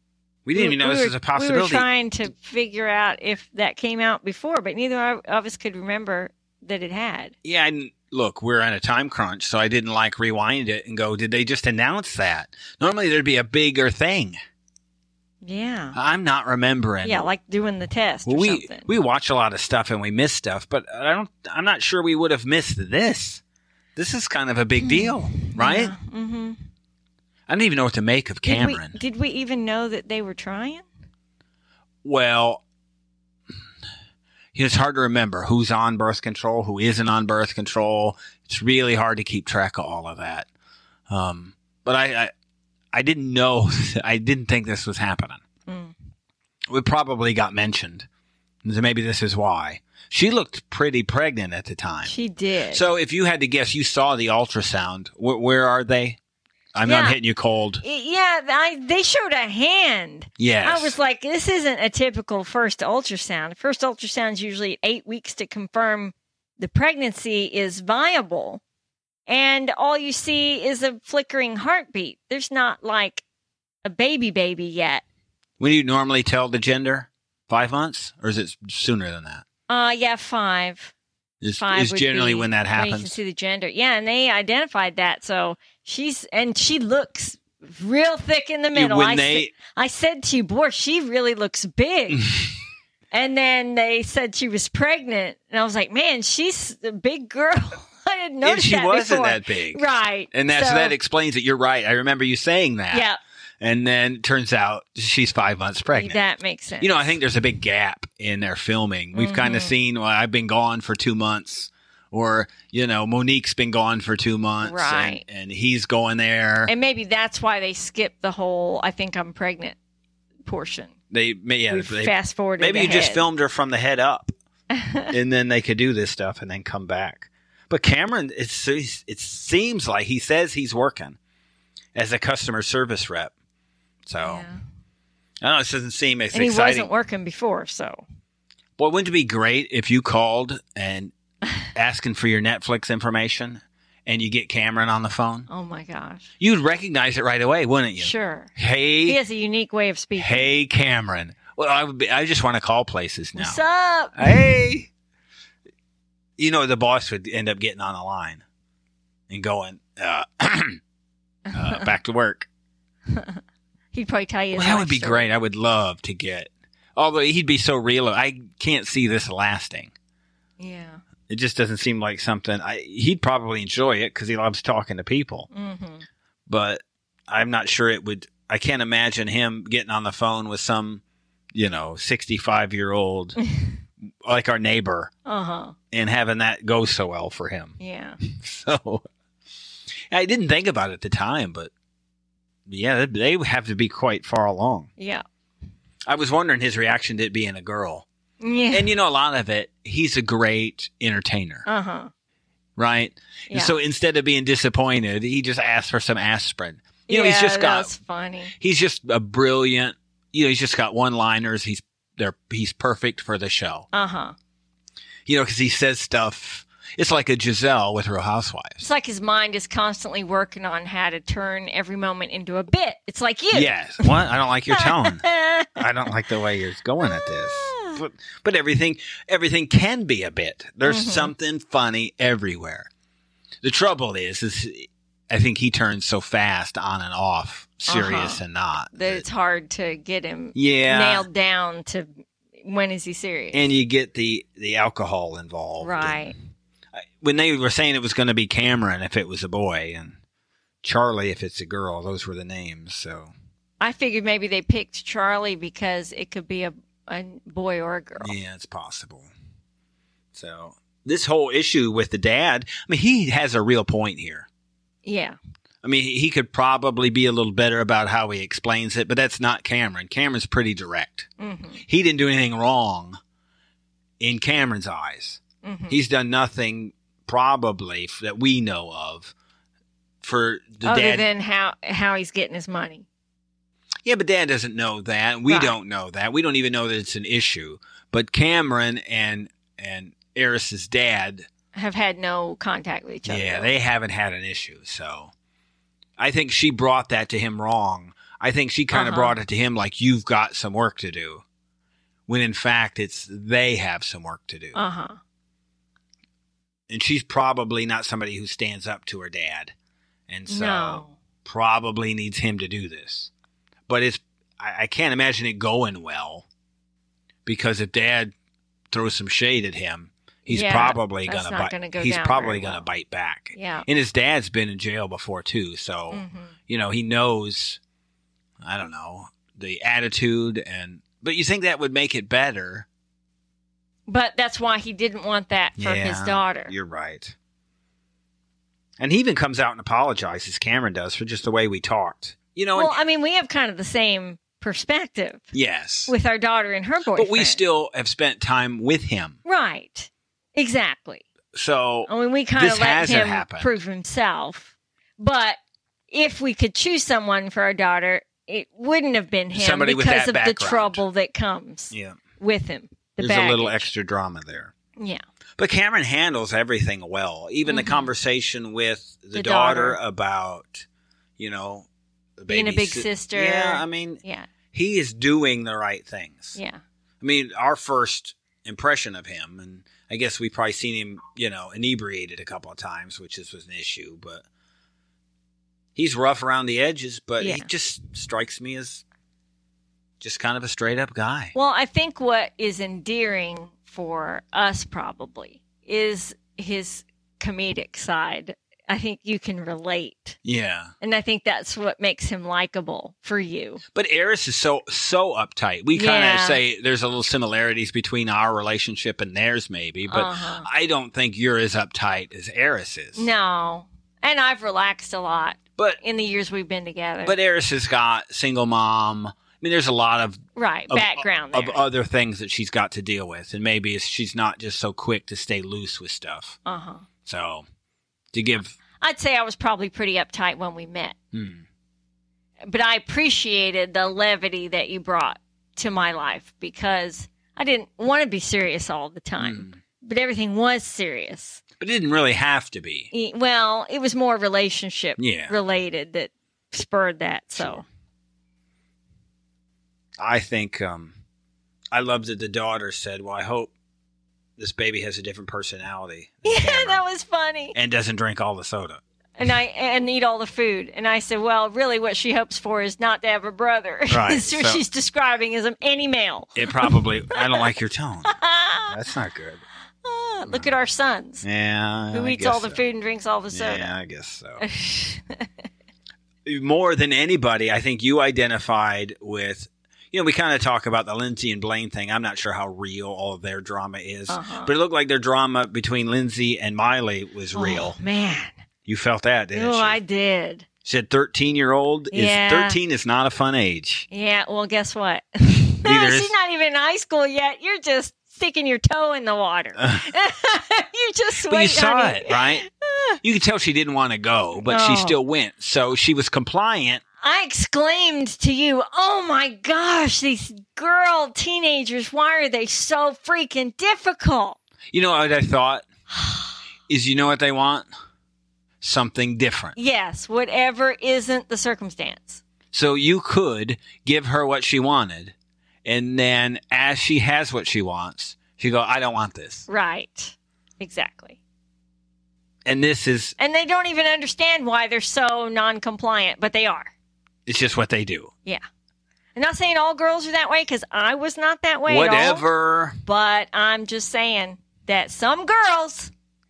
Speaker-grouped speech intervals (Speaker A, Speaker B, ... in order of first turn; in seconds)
Speaker A: 0.5-1.9, 7.4-14.4, 15.9-17.3, 18.3-23.4, 24.0-25.9, 27.5-29.0, 32.0-32.6, 34.5-40.5, 41.1-42.3, 42.9-45.4, 46.7-48.1, 48.6-52.1, 52.7-56.2, 56.7-57.8, 60.4-61.0, 75.6-79.5, 81.4-83.2, 88.7-89.5, 92.1-92.5, 98.4-103.1, 103.6-106.2, 106.8-116.7, 121.1-124.3, 125.1-131.2, 131.9-133.3, 134.1-134.5, 135.4-136.9, 138.8-141.1, 141.7-145.5, 146.4-149.2, 150.2-153.6, 154.2-154.9, 156.4-158.4, 159.3-160.8, 161.5-162.5, 164.5-169.9, 171.3-175.5, 176.5-181.0, 181.5-183.4, 184.2-185.1, 185.9-189.0, 190.1-191.7, 192.7-194.9, 196.1-198.1, 198.7-201.7, 202.8-207.9, 208.6-213.9, 215.3-218.8, 223.5-232.9, 233.6-239.2, 240.6-241.3, 243.5-246.2, 247.0-250.2, 250.8-253.3, 258.2-259.3, 260.3-264.5, 265.8-271.3, 271.9-273.2, 274.2-279.3, 280.2-281.3, 284.1-291.5, 293.3-295.3, 296.2-301.4, 302.3-304.8, 306.9-309.7, 310.3-313.3, 313.9-316.5, 317.5-318.3, 318.9-327.8, 328.6-332.9, 335.8-337.4, 339.0-342.9, 345.5-346.1, 347.1-349.4, 351.5-353.8, 359.5-361.0, 361.9-362.2, 363.2-364.7, 365.6-370.9, 371.4-371.9, 372.4-374.2, 374.7-376.6, 377.2-384.4, 386.0-389.0, 390.2-391.6, 400.4-400.9, 403.9-413.3, 417.2-426.6, 427.2-427.7, 428.3-428.8, 431.3-431.6, 439.4-439.8, 441.8-443.1, 445.2-445.6, 450.2-451.1, 451.9-453.7, 454.6-457.0, 457.7-459.0, 464.1-464.8, 466.6-469.6, 471.4-472.8, 473.5-474.6, 476.4-488.0, 488.9-490.0, 490.9-494.1, 495.8-496.3, 499.8-500.0, 501.5-502.6, 503.2-507.0, 514.9-515.9, 516.9-517.9, 518.8-519.8, 522.7-525.3, 525.9-529.7, 532.7-533.3, 537.5-538.3, 541.9-543.0
Speaker B: 0.6-7.3, 15.4-16.0, 17.0-18.9, 24.8-26.6, 28.5-30.9, 45.7-46.0, 52.0-52.9, 56.9-57.2, 57.8-68.6, 69.3-73.2, 73.8-75.0, 79.7-80.9, 81.6-92.3, 93.1-101.0, 102.9-103.2, 105.9-106.9, 109.1-109.7, 114.6-115.2, 116.7-119.8, 120.5-120.9, 121.7-123.2, 124.7-125.1, 134.2-134.6, 136.3-138.1, 145.5-146.2, 148.0-148.5, 149.1-150.5, 153.4-154.4, 161.5-161.9, 163.1-163.4, 163.9-165.3, 170.6-171.0, 175.5-176.1, 183.4-183.8, 185.3-185.8, 187.8-188.2, 195.0-195.2, 198.4-198.9, 201.7-202.1, 203.5-203.8, 207.1-208.5, 213.9-214.3, 218.8-224.2, 224.7-225.8, 227.0-228.0, 230.8-231.3, 237.9-238.4, 238.9-242.1, 242.6-243.7, 245.8-246.4, 253.8-258.3, 265.1-265.4, 271.4-271.8, 275.6-276.0, 280.8-283.1, 285.5-285.8, 291.7-293.7, 298.9-299.4, 304.8-305.2, 310.5-311.2, 320.5-322.9, 323.6-323.9, 326.1-326.5, 334.1-336.7, 342.8-345.5, 346.1-347.6, 349.4-351.2, 352.1-355.6, 356.1-363.9, 367.7-368.1, 369.3-370.0, 372.5-374.5, 376.6-376.8, 387.4-387.7, 391.6-400.4, 401.0-403.8, 405.9-406.6, 410.1-410.7, 413.2-417.4, 420.6-421.8, 426.6-427.1, 429.0-431.2, 432.7-441.6, 443.1-447.9, 456.4-457.8, 459.4-467.7, 468.3-469.0, 470.0-471.4, 472.1-473.9, 474.6-475.5, 484.3-484.7, 487.6-488.6, 489.6-490.7, 492.1-492.8, 494.1-503.2, 504.7-505.2, 507.2-514.6, 516.2-516.5, 519.8-522.4, 529.7-531.4, 533.4-536.9, 539.4-542.5, 543.0-546.1